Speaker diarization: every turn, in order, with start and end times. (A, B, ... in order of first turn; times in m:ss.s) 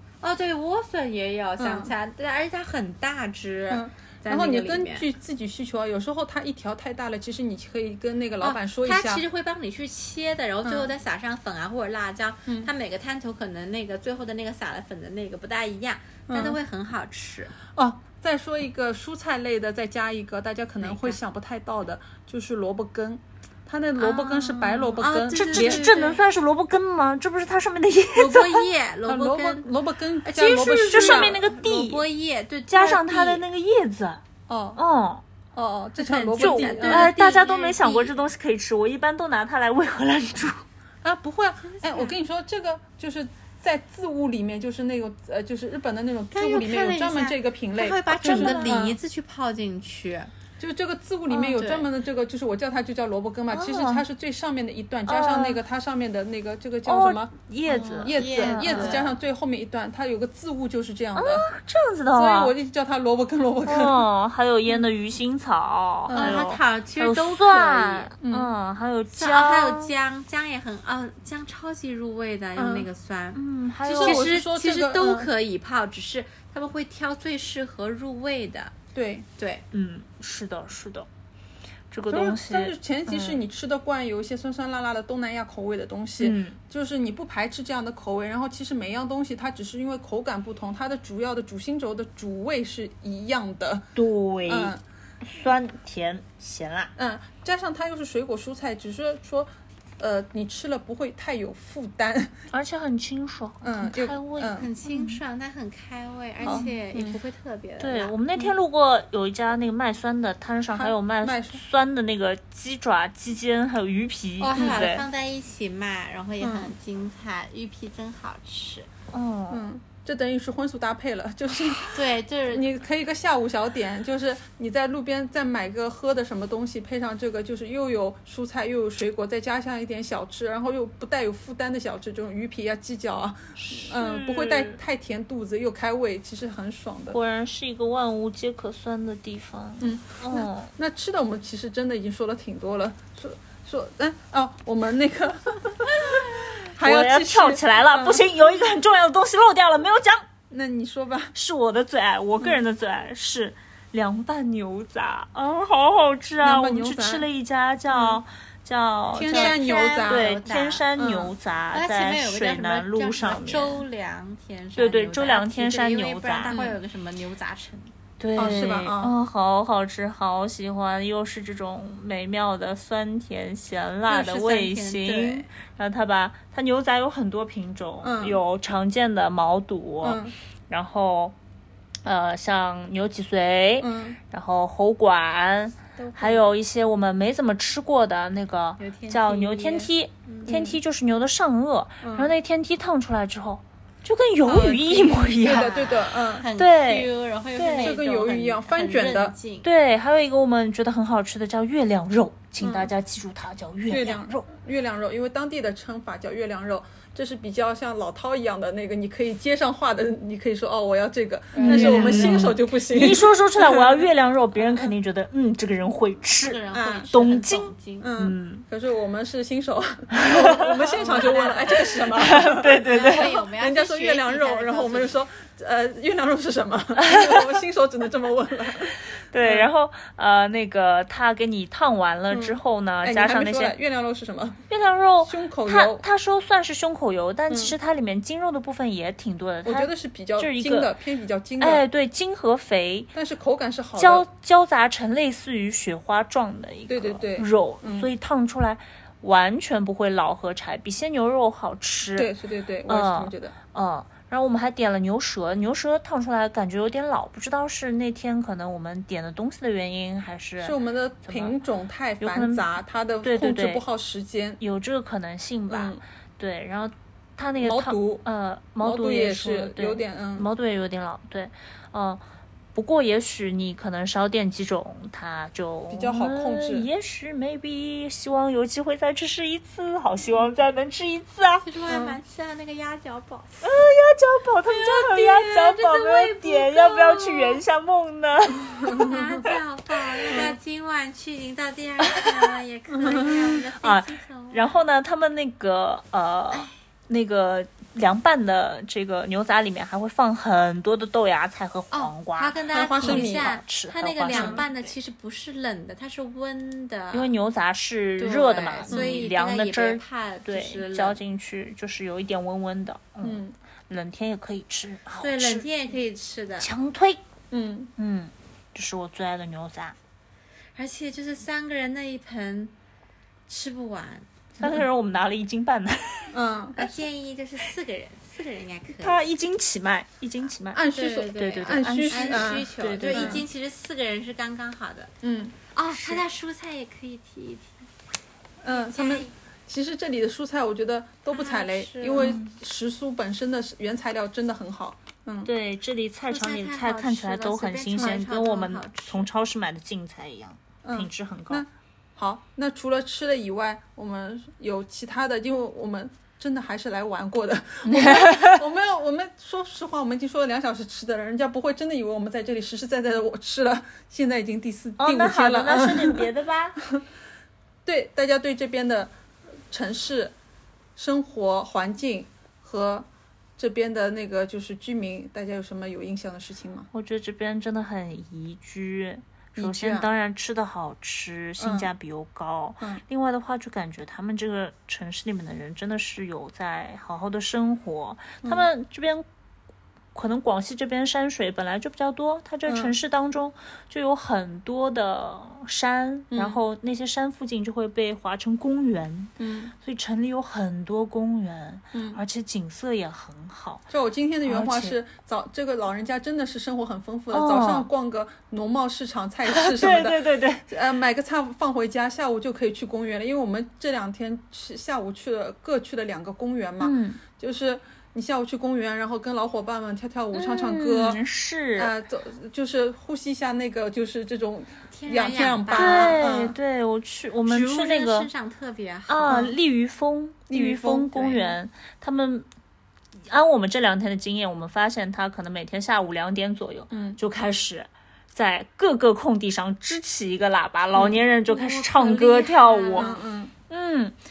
0:00.2-0:05.1 A
0:01.6-0:01.9 B
0:03.7-0:09.2 B
0:08.4-0:17.5 A
0:16.3-0:16.6 B
0:17.7-0:25.8 B
0:20.8-0:21.2 A
0:24.0-0:28.6 C
0:25.0-0:26.2 A
0:28.1-0:29.7 A
0:29.0-0:31.4 B
0:30.2-0:33.4 A
0:30.5-0:32.0 C
0:32.7-0:34.2 C
0:34.5-0:34.8 B
0:34.8-0:35.2 C
0:35.5-0:37.1 B
0:36.0-0:38.2 A
0:36.4-0:40.6 C
0:41.0-0:49.0 B
0:41.7-0:42.1 A
0:46.3-0:50.3 A
0:48.2-0:48.8 C
0:50.6-1:01.5 B
0:51.3-0:51.9 A
0:53.5-0:54.0 C
0:55.1-0:55.6 C
0:56.8-0:59.0 C
0:57.7-0:59.1 A
1:01.2-1:02.5 C
1:02.1-1:04.0 B
1:03.6-1:09.9 C
1:06.1-1:06.4 B
1:06.1-1:08.1 A
1:08.2-1:08.5 B
1:09.1-1:18.7 A
1:12.6-1:12.9 B
1:13.3-1:14.2 C
1:14.0-1:15.3 B
1:18.9-1:19.2 B
1:19.4-1:19.6 A
1:19.7-1:21.1 C
1:21.9-1:23.4 C
1:22.1-1:33.9 B
1:26.2-1:26.6 C
1:34.0-1:36.9 C
1:34.4-1:34.8 B
1:37.0-1:42.4 B
1:42.5-1:45.2 C
1:43.6-1:44.7 B
1:44.6-1:48.1 A
1:46.4-1:47.2 B
1:46.4-1:46.7 C
1:47.8-1:55.0 C
1:50.7-1:51.6 B
1:54.4-1:58.9 A
1:54.4-1:54.9 B
1:56.4-1:56.7 B
1:59.1-1:59.6 C
1:59.5-2:17.2 B
2:01.9-2:02.7 A
2:13.6-2:14.8 C
2:17.1-2:20.7 C
2:19.8-2:28.3 B
2:26.0-2:30.2 C
2:30.5-2:31.3 B
2:31.3-2:43.8 C
2:36.4-2:37.2 B
2:37.9-2:38.2 B
2:39.1-2:40.4 B
2:39.3-2:40.8 A
2:40.9-2:41.3 B
2:41.7-2:47.9 A
2:44.8-2:46.8 C
2:48.2-3:01.3 C
2:48.4-2:49.1 B
2:54.1-2:55.4 A
2:58.0-2:58.4 B
3:00.0-3:00.3 B
3:02.0-3:18.0 C
3:03.8-3:04.2 B
3:06.0-3:06.4 A
3:08.8-3:10.6 A
3:10.4-3:10.8 B
3:12.0-3:12.3 B
3:14.5-3:16.4 B
3:14.9-3:19.7 A
3:17.8-3:19.4 B
3:19.6-3:24.4 C
3:22.6-3:22.9 B
3:23.9-3:34.1 B
3:31.5-3:32.5 A
3:31.6-3:38.6 C
3:36.4-3:38.1 A
3:36.7-3:37.1 B
3:38.0-3:49.7 B
3:40.1-3:43.4 C
3:40.9-3:41.9 A
3:42.6-3:45.2 A
3:47.0-3:47.6 C
3:48.8-3:53.7 C
3:52.3-3:54.6 B
3:54.7-4:00.9 C
3:55.2-3:56.0 B
3:57.5-3:57.7 B
3:59.6-4:01.8 B
4:01.6-4:03.1 C
4:03.1-4:04.3 B
4:04.0-4:12.3 C
4:06.9-4:08.1 B
4:12.2-4:13.5 B
4:12.9-4:21.6 C
4:20.6-4:24.6 B
4:22.2-4:22.6 C
4:23.2-4:23.8 C
4:24.6-4:32.2 C
4:25.7-4:26.0 B
4:27.6-4:28.2 B
4:28.8-4:30.5 B
4:32.7-4:41.6 C
4:35.9-4:36.9 B
4:41.6-4:43.7 A
4:41.9-4:42.2 B
4:43.6-4:49.2 C
4:44.6-4:47.6 A
4:48.8-4:49.2 B
4:48.8-4:54.7 A
4:50.2-4:50.5 C
4:53.0-4:53.5 B
4:53.8-5:04.9 C
5:01.9-5:07.3 A
5:02.7-5:03.6 B
5:04.3-5:04.6 B
5:07.1-5:15.6 C
5:08.2-5:11.2 A
5:08.9-5:09.2 B
5:13.2-5:13.5 B
5:15.2-5:16.7 A
5:16.6-5:17.2 C
5:17.5-5:17.9 B
5:18.0-5:19.9 C
5:20.8-5:22.7 A
5:23.5-5:24.3 A
5:24.6-5:26.4 C
5:26.3-5:26.8 B
5:26.8-5:29.2 A
5:28.9-5:33.4 C
5:30.7-5:33.4 B
5:30.9-5:35.1 A
5:35.2-5:35.6 B
5:35.7-5:37.8 A
5:35.9-5:36.2 C
5:38.6-5:45.5 B
5:38.7-5:39.3 A
5:41.3-5:42.4 A
5:42.2-5:42.5 C
5:45.4-5:51.6 C
5:46.3-5:49.3 A
5:50.8-6:06.3 B
5:57.8-5:58.6 C
6:05.0-6:06.8 C
6:07.8-6:09.1 B
6:09.7-6:10.3 B
6:11.0-6:16.9 B
6:16.9-6:29.2 C
6:19.6-6:20.1 B
6:21.6-6:21.9 B
6:30.1-6:43.8 C
6:32.7-6:32.9 B
6:36.3-6:36.6 B
6:39.4-6:39.7 B
6:41.9-6:42.2 B
6:43.9-7:01.2 B
6:44.4-6:45.0 C
6:47.3-6:47.9 C
6:49.5-6:50.6 C
6:56.8-6:57.2 C
7:00.3-7:01.9 C
7:01.8-7:06.6 B
7:04.9-7:06.2 A
7:05.7-7:08.3 C
7:07.4-7:09.5 A
7:09.1-7:12.4 C
7:09.2-7:09.6 B
7:10.5-7:11.5 B
7:13.2-7:23.1 C
7:16.9-7:17.2 B
7:20.9-7:21.2 B
7:21.5-7:23.2 A
7:23.0-7:23.5 B
7:23.7-7:24.2 C